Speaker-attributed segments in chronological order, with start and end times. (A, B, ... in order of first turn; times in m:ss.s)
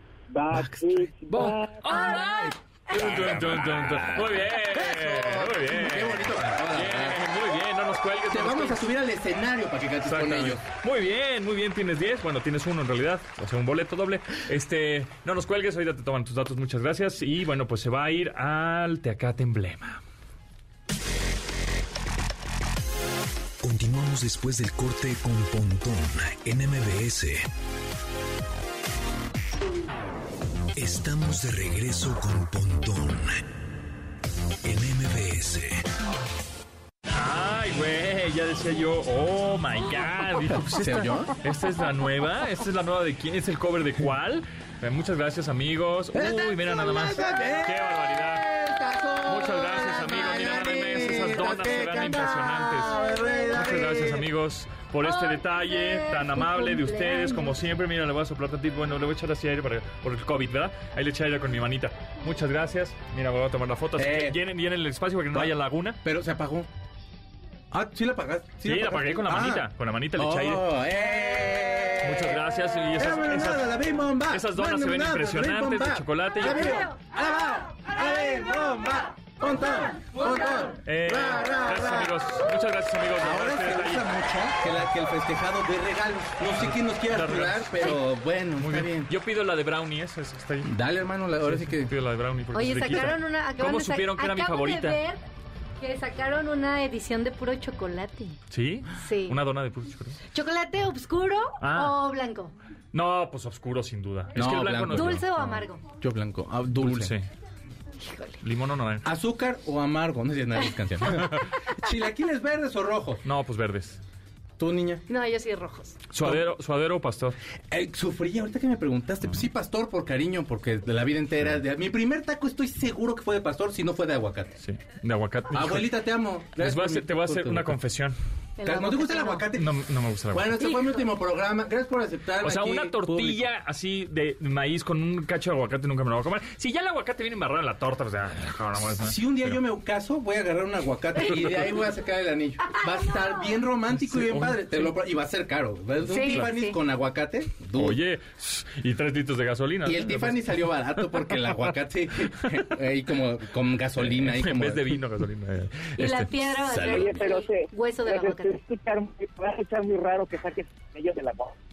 0:00.3-0:01.9 A
0:00.5-0:07.2 B
0:01.5-0:08.9 C
0:08.3-0:10.6 B
0:10.0-0:20.0 C
0:23.6-0:27.5 D
0:30.8-0:33.4 D
0:34.6-0:35.9 D
0:37.1-0:48.6 C
0:40.7-0:41.3 B
0:46.1-0:54.3 B
0:49.2-1:06.0 C
0:53.1-0:53.8 E
0:55.0-0:57.6 E
1:04.0-1:04.4 B
1:06.0-1:06.7 B
1:07.7-1:12.4 B
1:08.6-1:10.7 C
1:12.0-1:13.7 C
1:12.9-1:22.3 B
1:14.3-1:16.9 C
1:20.8-1:24.1 C
1:23.2-1:29.1 B
1:26.6-1:28.0 C
1:28.6-1:30.7 C
1:30.6-1:31.9 B
1:31.4-1:35.0 C
1:32.5-1:35.2 E
1:35.8-1:38.4 E
1:38.5-1:40.2 C
1:39.0-1:39.4 E
1:40.3-1:42.5 E
1:41.6-1:42.0 C
1:42.9-1:45.7 C
1:44.4-1:45.2 B
1:44.9-1:45.8 E
1:46.0-1:47.1 B
1:46.7-1:47.2 C
1:48.0-1:48.4 E
1:48.4-1:49.1 C
1:49.0-1:53.2 B
1:51.2-1:51.5 C
1:53.2-1:54.0 C
1:54.6-1:55.0 B
1:55.1-1:56.0 E
1:56.1-1:57.4 C
1:57.7-2:04.5 B
2:04.6-2:06.0 C
2:05.5-2:07.8 B
2:06.6-2:08.2 C
2:08.6-2:09.5 E
2:08.6-2:09.8 B
2:09.5-2:10.7 C
2:10.3-2:13.4 B
2:10.6-2:10.9 E
2:12.4-2:19.6 C
2:19.0-2:28.0 B
2:24.0-2:24.9 C
2:26.1-2:26.8 E
2:27.8-2:31.6 C
2:29.8-2:35.0 B
2:34.0-2:36.5 C
2:36.0-2:38.6 E
2:36.7-2:37.0 B
2:36.7-2:41.6 A